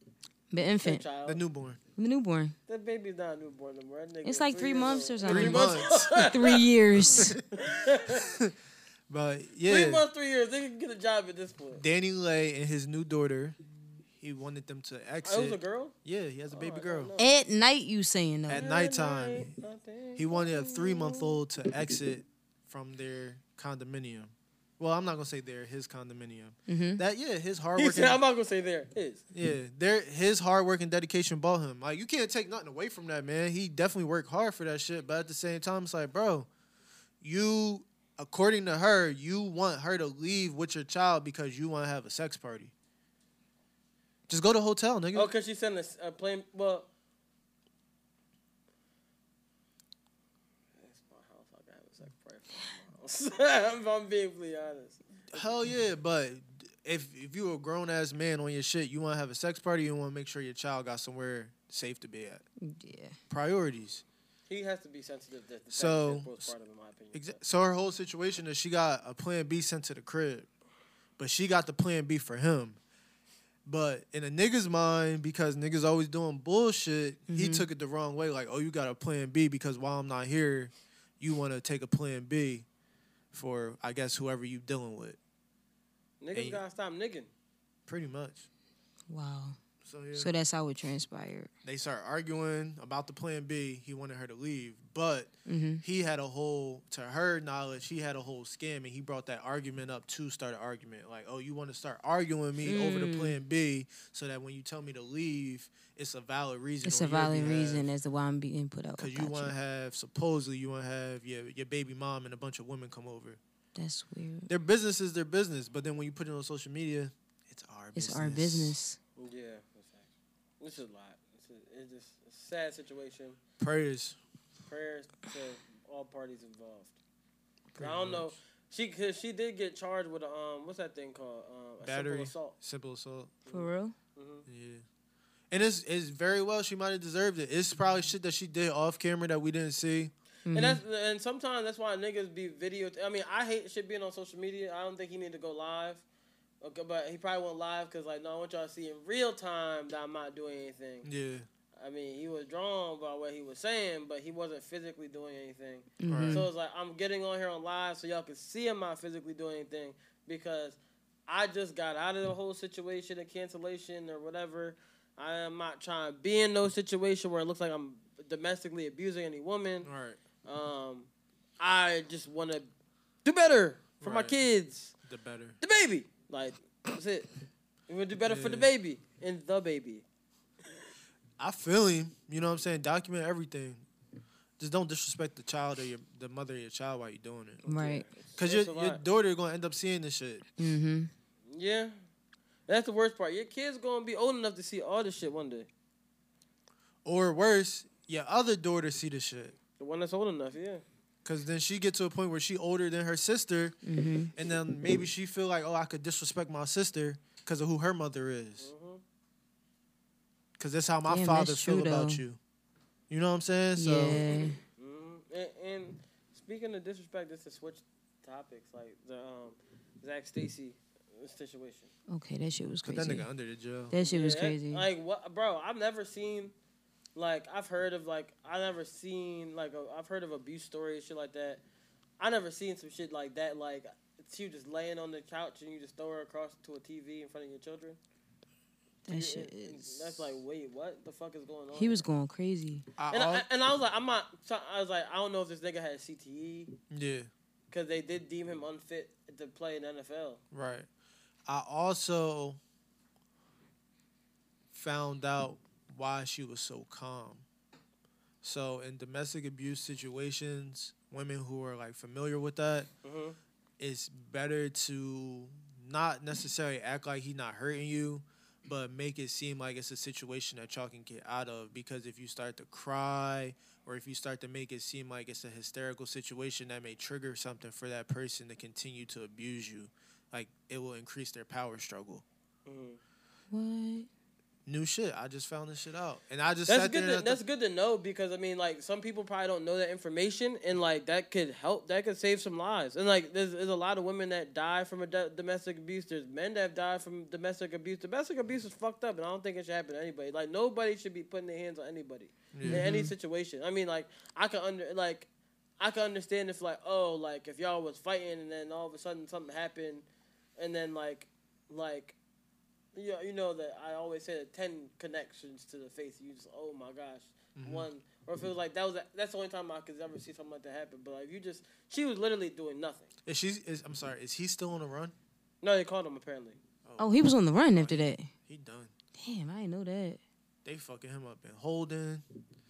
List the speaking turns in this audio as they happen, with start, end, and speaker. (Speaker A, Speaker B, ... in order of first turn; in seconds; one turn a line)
Speaker A: 0.5-1.0
Speaker B: 0.8-1.4
Speaker C: 1.3-1.8
Speaker A: 2.0-2.5
Speaker B: 2.7-6.6
Speaker A: 4.2-7.4
Speaker C: 5.2-6.3
Speaker C: 7.1-7.5
Speaker B: 7.6-8.3
Speaker C: 8.1-8.5
Speaker C: 9.1-10.0
Speaker B: 9.7-11.8
Speaker C: 11.7-13.6
Speaker C: 14.2-17.1
Speaker B: 15.2-15.9
Speaker B: 16.5-17.3
Speaker A: 17.2-18.6
Speaker C: 18.5-19.5
Speaker B: 18.5-21.4
Speaker C: 20.2-28.2
Speaker A: 26.7-27.0
Speaker B: 27.8-29.2
Speaker C: 29.3-36.5
Speaker C: 37.2-42.7
Speaker C: 44.3-45.3
Speaker B: 45.1-46.9
Speaker B: 50.8-55.5
Speaker C: 55.3-62.4
Speaker A: 62.6-63.2
Speaker C: 63.3-64.0
Speaker B: 64.5-67.4
Speaker C: 65.7-66.5
Speaker C: 67.1-70.5
Speaker C: 71.2-72.8
Speaker C: 73.7-82.7
Speaker A: 77.3-77.7
Speaker C: 83.3-85.2
Speaker B: 86.2-87.3
Speaker C: 86.3-86.6
Speaker C: 87.9-88.5
Speaker A: 89.1-89.6
Speaker C: 89.8-90.3
Speaker A: 90.1-91.5
Speaker C: 91.6-107.9
Speaker A: 95.5-95.8
Speaker A: 102.6-103.4
Speaker A: 106.8-109.5
Speaker C: 109.0-113.4
Speaker A: 113.8-114.5
Speaker C: 114.5-118.8
Speaker A: 118.0-119.0
Speaker B: 119.2-120.1
Speaker B: 120.6-123.4
Speaker C: 123.6-124.2
Speaker B: 124.7-126.9
Speaker C: 127.7-128.3
Speaker B: 127.8-132.6
Speaker C: 131.8-133.4
Speaker B: 133.4-134.4
Speaker A: 133.5-133.9
Speaker C: 134.4-134.8
Speaker C: 135.5-140.1
Speaker A: 140.5-140.8
Speaker B: 140.5-146.0
Speaker B: 146.6-151.1
Speaker C: 151.0-151.5
Speaker B: 151.8-169.9
Speaker A: 156.0-156.4
Speaker C: 156.1-156.5
Speaker C: 169.8-170.2
Speaker B: 170.4-171.1
Speaker B: 171.6-172.7
Speaker B: 173.2-174.9
Speaker C: 174.0-174.4
Speaker C: 175.0-175.6
Speaker B: 175.6-177.3
Speaker B: 177.9-180.0
Speaker C: 178.2-178.7
Speaker C: 181.4-183.8
Speaker C: 184.6-187.6
Speaker B: 187.7-189.0
Speaker A: 187.7-188.1
Speaker C: 188.4-190.4
Speaker A: 190.6-191.1
Speaker B: 191.5-191.9
Speaker B: 192.7-195.7
Speaker C: 197.1-199.6
Speaker B: 199.8-200.8
Speaker C: 201.2-203.8
Speaker A: 203.8-204.3
Speaker C: 204.3-208.7
Speaker B: 208.6-209.0
Speaker C: 210.6-212.4
Speaker A: 211.1-212.2
Speaker C: 213.1-214.2
Speaker A: 213.8-214.6
Speaker B: 214.8-221.9
Speaker A: 222.1-223.3
Speaker C: 222.8-223.9
Speaker A: 223.9-224.8
Speaker B: 224.0-226.5
Speaker B: 227.2-231.6
Speaker B: 232.2-238.0
Speaker A: 239.1-240.2
Speaker B: 239.1-242.1
Speaker A: 241.8-242.8
Speaker C: 243.0-243.4
Speaker B: 243.1-246.7
Speaker C: 246.9-247.3
Speaker B: 247.7-250.4
Speaker C: 250.5-250.9
Speaker C: 251.5-252.6
Speaker C: 254.7-257.4
Speaker C: 258.4-262.9
Speaker B: 263.0-263.4
Speaker C: 263.8-282.2
Speaker B: 282.6-283.0
Speaker A: 283.5-284.1
Speaker C: 284.6-287.4
Speaker B: 286.7-305.3
Speaker C: 302.5-302.8
Speaker A: 302.6-303.1
Speaker B: 305.8-310.1
Speaker B: 310.6-312.1
Speaker B: 312.9-323.1
Speaker C: 317.6-317.9
Speaker C: 323.3-325.1
Speaker B: 325.6-326.6
Speaker C: 326.9-328.9
Speaker A: 327.0-328.3
Speaker A: 329.2-330.2
Speaker C: 330.6-332.2